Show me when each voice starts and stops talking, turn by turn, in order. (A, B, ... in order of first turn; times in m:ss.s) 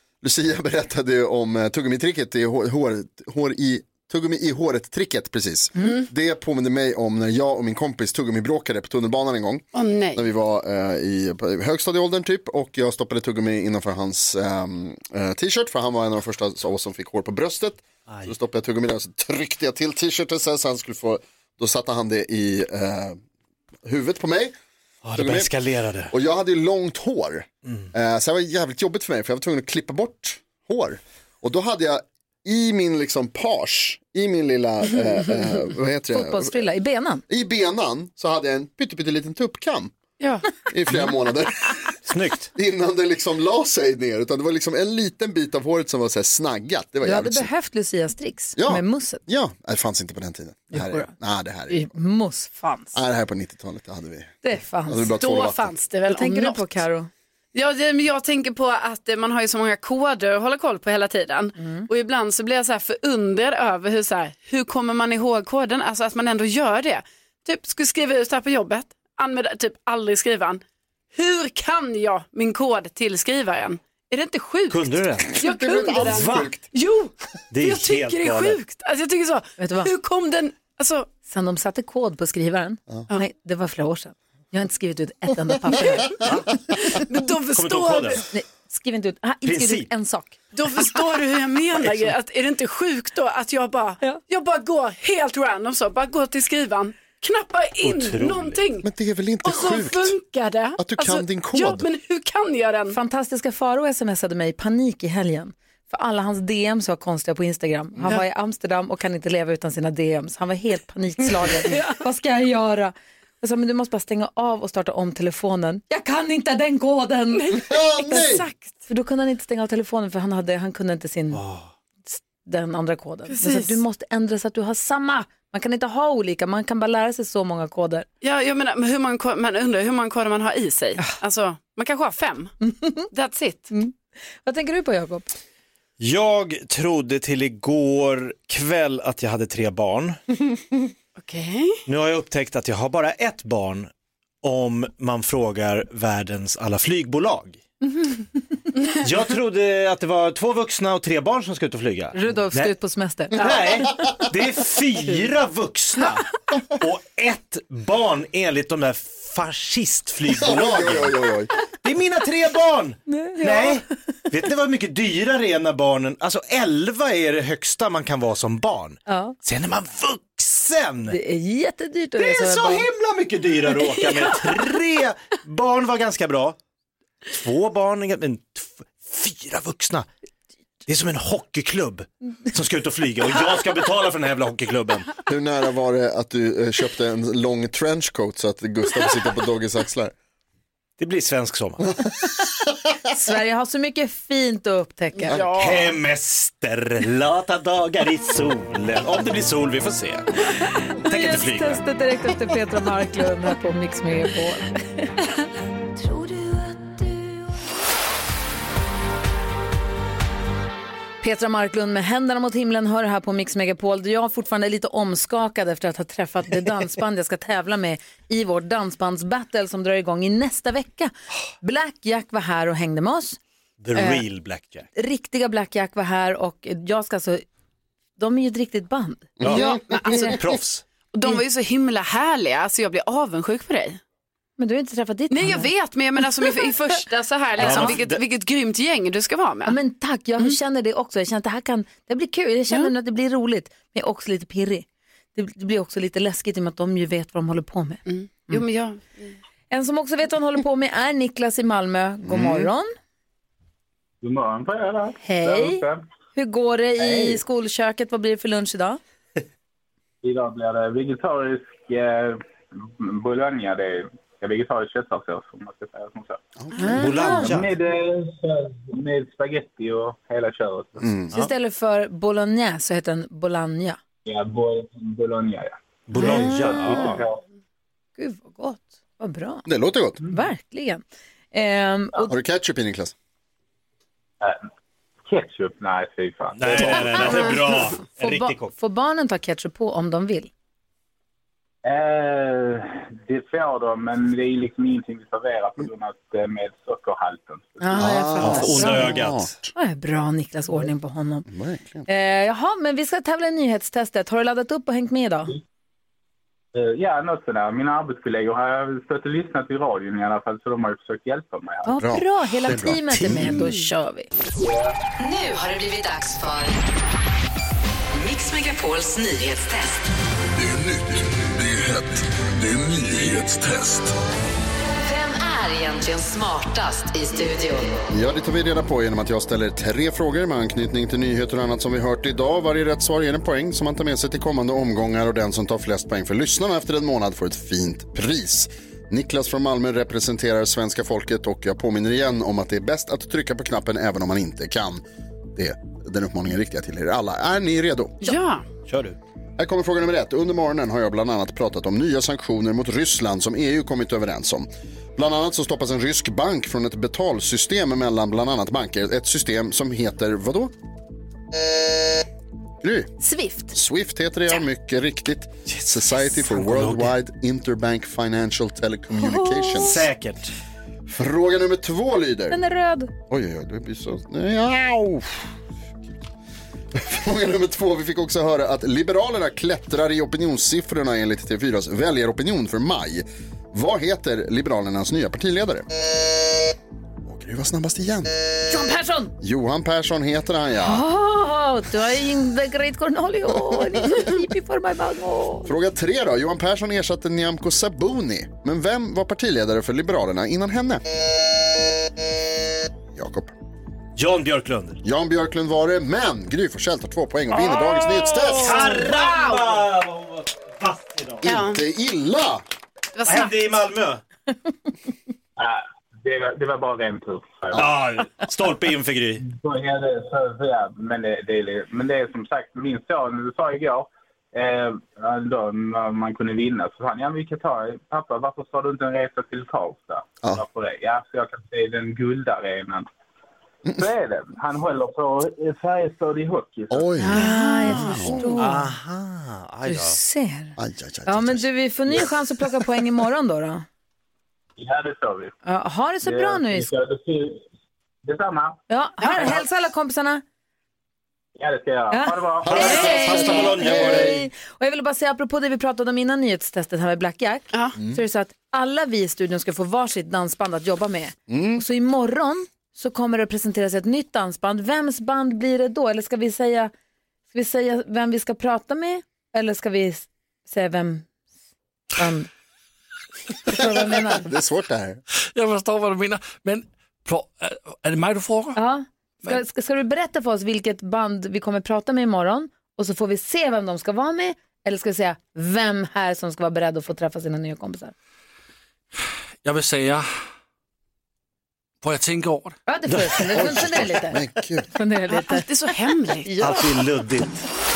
0:00.2-0:23.2 A
0:09.7-0:10.2 B
0:23.8-0:24.5 A
0:25.0-0:26.1 C
0:25.1-0:25.5 A
0:26.1-0:36.6 A
0:36.1-0:37.2 D
0:37.3-0:39.9 A
0:40.2-0:40.4 B
0:40.7-0:42.0 A
0:42.0-0:42.5 C
0:42.5-0:47.5 A
0:47.0-0:49.2 D
0:48.6-0:51.9 A
0:50.7-0:51.1 D
0:51.7-0:53.0 D
0:52.9-0:55.7 A
0:54.4-0:55.1 D
0:55.2-0:56.8 B
0:56.1-0:57.1 D
0:57.5-1:10.6 B
1:01.6-1:01.9 D
1:11.1-1:21.1 B
1:14.7-1:16.5 C
1:15.3-1:16.6 A
1:17.5-1:18.6 C
1:19.6-1:19.9 D
1:21.2-1:26.3 D
1:26.7-1:28.2 B
1:27.5-1:28.2 C
1:28.3-1:30.4 D
1:29.4-1:29.9 C
1:30.5-1:38.9 B
1:37.8-1:38.6 C
1:38.8-1:40.2 A
1:39.4-1:43.0 B
1:40.8-1:41.8 A
1:42.9-1:57.5 D
1:51.6-1:52.0 B
1:57.3-1:58.7 B
1:57.5-1:58.5 A
1:58.9-2:01.4 D
2:01.3-2:01.7 C
2:02.0-2:08.0 D
2:03.3-2:03.8 B
2:08.2-2:12.5 B
2:12.6-2:13.1 D
2:13.1-2:13.7 B
2:13.7-2:15.3 D
2:16.0-2:20.2 C
2:21.2-2:21.8 B
2:21.9-2:23.9 C
2:24.4-2:27.6 C
2:28.9-2:32.7 C
2:32.1-2:33.6 D
2:33.4-2:41.2 C
2:33.4-2:34.2 A
2:40.3-2:41.5 A
2:41.8-2:51.2 C
2:43.1-2:43.8 D
2:49.1-2:49.4 D
2:51.1-2:52.8 D
2:52.2-2:56.6 C
2:57.3-3:00.1 C
3:00.9-3:05.1 C
3:05.3-3:10.1 A
3:11.0-3:11.8 C
3:13.1-3:15.4 D
3:15.2-3:16.0 B
3:15.6-3:21.8 C
3:21.0-3:25.1 D
3:31.2-3:43.4 D
3:43.8-3:44.9 C
3:43.9-3:44.2 D
3:45.0-3:47.4 D
3:48.2-3:50.4 D
3:49.4-3:49.8 A
3:49.4-3:50.8 C
3:49.5-3:50.3 B
3:51.1-3:54.0 B
3:54.6-3:55.7 D
3:55.3-3:59.8 B
3:57.6-3:58.2 C
3:57.6-3:58.0 D
3:59.7-4:08.6 D
4:08.1-4:09.3 B
4:09.7-4:12.9 D
4:12.2-4:12.7 A
4:14.2-4:16.0 E
4:15.2-4:15.8 D
4:16.3-4:19.0 D
4:20.2-4:26.4 E
4:26.6-4:27.0 A
4:26.7-4:27.0 B
4:26.8-4:27.5 D
4:26.9-4:27.7 C
4:27.4-4:31.1 E
4:31.0-4:31.5 A
4:31.3-4:34.0 D
4:34.2-4:37.4 E
4:36.1-4:37.2 C
4:36.2-4:37.0 D
4:38.2-4:39.6 D
4:39.6-4:40.2 A
4:40.3-4:42.3 D
4:42.2-4:43.1 A
4:44.4-4:44.7 E
4:45.2-4:47.5 E
4:46.5-4:48.7 C
4:46.9-4:47.6 D
4:48.1-4:50.5 D
4:51.8-4:58.1 E
4:57.8-4:59.2 D
4:57.9-4:59.7 A
4:58.4-4:59.5 C
4:59.7-5:01.4 D
5:01.5-5:02.1 A
5:02.1-5:05.5 D
5:06.7-5:11.9 E
5:11.8-5:14.3 D
5:11.9-5:13.7 A
5:14.6-5:15.0 E
5:15.2-5:16.8 F
5:18.1-5:20.0 F
5:20.6-5:24.1 G
5:25.0-5:28.0 F
5:28.1-5:45.0 A
5:45.5-5:48.2 A
5:48.2-5:48.6 B
5:48.9-5:49.2 C
5:49.6-6:00.7 A
6:02.8-6:03.1 A
6:03.2-6:03.8 D
6:03.7-6:10.0 A
6:05.7-6:07.1 C
6:09.1-6:10.0 D
6:09.8-6:10.5 C
6:11.1-6:12.6 A
6:12.5-6:13.1 D
6:13.3-6:15.5 A
6:16.9-6:25.9 A
6:27.2-6:28.4 A
6:28.7-6:29.3 D
6:29.4-6:31.0 A
6:30.8-6:35.7 D
6:33.7-6:34.2 A
6:35.6-6:41.0 A
6:43.1-6:43.5 A
6:44.2-6:45.0 C
6:45.0-6:48.8 A
6:47.7-6:51.7 C
6:48.6-6:49.8 B
6:51.4-6:52.6 A
6:51.4-6:51.8 B
6:53.2-6:53.6 B
6:53.2-6:54.2 C
6:55.6-6:57.8 E
6:57.7-6:59.4 C
6:59.4-7:13.0 E
7:13.9-7:17.2 E
7:16.9-7:18.6 A
7:17.2-7:18.9 D
7:17.4-7:18.4 B
7:18.6-7:20.2 C
7:19.8-7:23.8 D
7:20.8-7:22.3 A
7:24.8-7:25.5 E
7:25.6-7:26.9 D
7:26.2-7:27.6 E
7:28.2-7:28.8 E
7:28.9-7:30.4 D
7:29.2-7:29.5 B
7:31.6-7:33.3 E
7:32.1-7:46.9 D
7:32.6-7:34.4 A
7:32.6-7:34.5 C
7:41.5-7:41.8 A
7:47.5-7:51.3 D
7:52.1-7:52.5 D
7:53.7-7:54.5 D
7:53.8-7:55.2 A
7:55.5-7:58.8 H
7:58.7-8:08.1 D
8:09.6-8:10.2 H
8:12.0-8:12.8 H
8:12.9-8:14.4 D
8:13.1-8:13.6 C
8:13.5-8:14.9 A
8:14.9-8:15.7 D
8:15.3-8:16.5 B
8:16.4-8:17.0 D
8:16.6-8:17.6 C